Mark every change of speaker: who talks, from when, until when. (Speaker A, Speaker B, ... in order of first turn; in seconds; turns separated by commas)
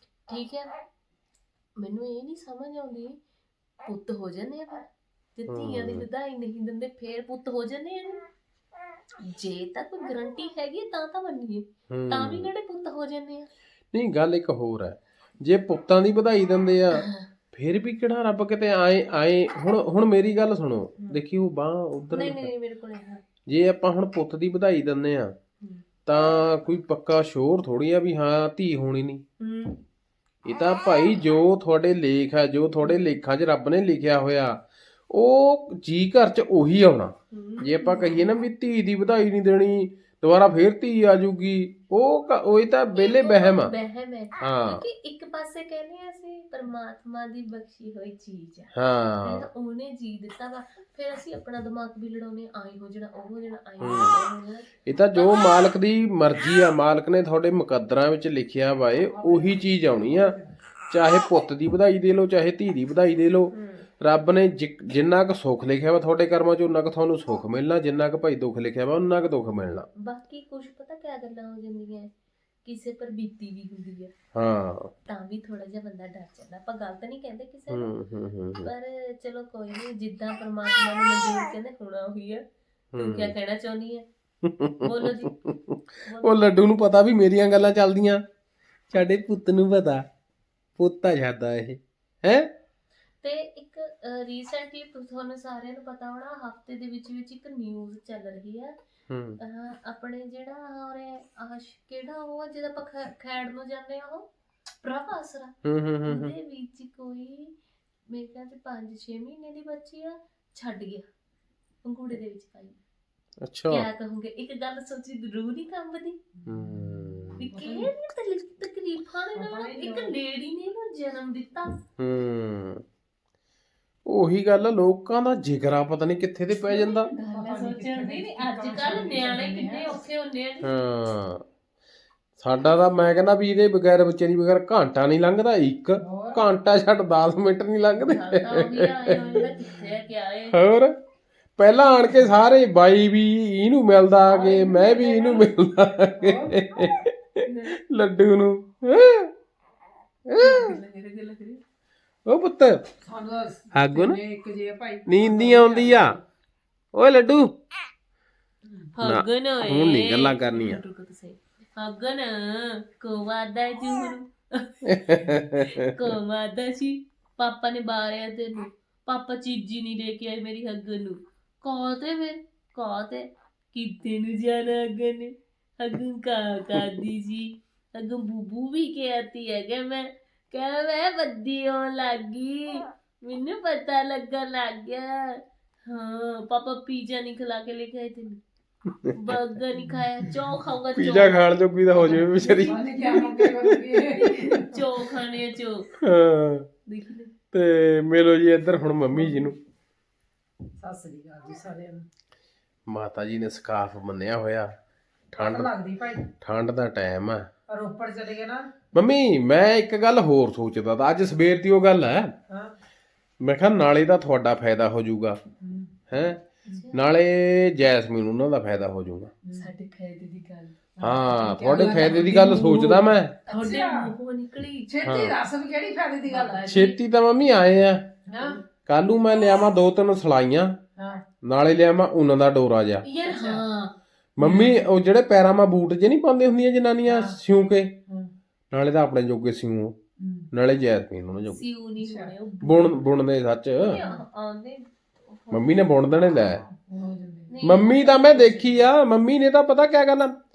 Speaker A: 0.3-0.7, Speaker A: 1.8-3.2, Speaker A: 3.8-8.2, Speaker B: 5.5-6.1, Speaker A: 9.2-13.5, Speaker B: 11.9-12.5, Speaker B: 13.9-22.5, Speaker A: 16.9-17.3, Speaker A: 22.1-23.2, Speaker B: 23.5-25.4, Speaker B: 26.1-29.2, Speaker A: 29.4-29.8, Speaker B: 30.5-43.7, Speaker A: 37.3-38.3, Speaker A: 43.0-55.6, Speaker B: 44.4-44.8, Speaker B: 48.7-49.5, Speaker B: 53.8-54.2, Speaker B: 54.9-60.4, Speaker C: 59.1-60.5, Speaker B: 60.9-69.9, Speaker A: 63.5-63.9, Speaker A: 70.0-72.1, Speaker A: 72.7-74.1, Speaker B: 74.3-74.9, Speaker A: 75.1-77.9, Speaker B: 77.7-78.7, Speaker A: 78.6-82.4, Speaker B: 82.9-83.3, Speaker A: 83.0-84.1, Speaker B: 84.4-88.2, Speaker A: 84.8-85.4, Speaker A: 86.0-86.5, Speaker B: 88.9-90.1, Speaker B: 90.8-92.5, Speaker A: 93.2-98.8, Speaker B: 99.1-99.4, Speaker A: 99.4-104.3, Speaker A: 104.8-105.5, Speaker B: 105.6-106.3, Speaker A: 106.1-107.5, Speaker A: 108.1-111.1, Speaker A: 111.8-112.8, Speaker B: 113.4-113.9, Speaker A: 113.7-116.2, Speaker C: 116.4-117.9, Speaker B: 116.5-117.5, Speaker A: 117.4-121.8, Speaker C: 119.3-120.2, Speaker B: 122.0-122.8, Speaker B: 124.1-127.1, Speaker A: 126.7-130.7, Speaker C: 127.3-130.0, Speaker B: 130.6-131.5, Speaker B: 132.4-139.6, Speaker C: 136.0-136.4, Speaker A: 138.0-140.6, Speaker C: 139.6-140.0, Speaker B: 140.5-140.9, Speaker B: 141.6-149.3, Speaker C: 144.3-145.5, Speaker C: 146.2-146.6, Speaker A: 147.4-147.7, Speaker B: 150.3-150.8, Speaker A: 150.4-151.6, Speaker B: 152.3-152.9, Speaker C: 153.0-156.2, Speaker B: 153.7-154.2, Speaker B: 155.1-156.2, Speaker B: 156.9-157.6, Speaker A: 158.9-164.7, Speaker B: 159.0-160.8, Speaker B: 164.8-165.9, Speaker A: 165.7-188.4, Speaker B: 188.9-189.4, Speaker A: 189.1-193.3, Speaker B: 190.9-194.6, Speaker C: 192.1-194.7, Speaker A: 194.7-195.9, Speaker B: 196.0-196.7, Speaker A: 196.9-197.3, Speaker B: 197.5-199.6, Speaker C: 200.8-202.1, Speaker B: 202.9-204.7, Speaker B: 205.3-205.7, Speaker C: 205.4-206.3, Speaker B: 206.4-207.5, Speaker C: 207.7-208.7, Speaker B: 208.9-212.3, Speaker C: 212.5-212.7, Speaker B: 213.4-215.4, Speaker C: 215.6-215.9, Speaker B: 216.1-216.4, Speaker A: 216.7-217.0, Speaker B: 216.9-219.3, Speaker C: 219.4-219.7, Speaker A: 219.5-220.8, Speaker C: 221.0-224.1, Speaker B: 221.0-223.4, Speaker A: 221.8-222.4, Speaker A: 223.5-224.9, Speaker C: 224.9-226.9, Speaker B: 225.0-225.4, Speaker A: 226.3-226.9, Speaker B: 226.7-228.1, Speaker C: 228.3-228.6, Speaker B: 228.9-230.8, Speaker C: 231.0-231.2, Speaker B: 231.4-233.1, Speaker A: 233.0-233.9, Speaker C: 233.3-233.6, Speaker B: 234.4-238.0, Speaker C: 234.4-234.8, Speaker C: 237.1-237.4, Speaker B: 238.7-240.0, Speaker C: 240.2-240.5, Speaker B: 240.5-241.6, Speaker A: 241.5-243.1, Speaker C: 242.0-242.3, Speaker B: 242.6-244.0, Speaker A: 243.8-245.9, Speaker B: 245.5-246.6, Speaker C: 246.7-247.5, Speaker A: 247.5-248.9, Speaker B: 247.6-250.4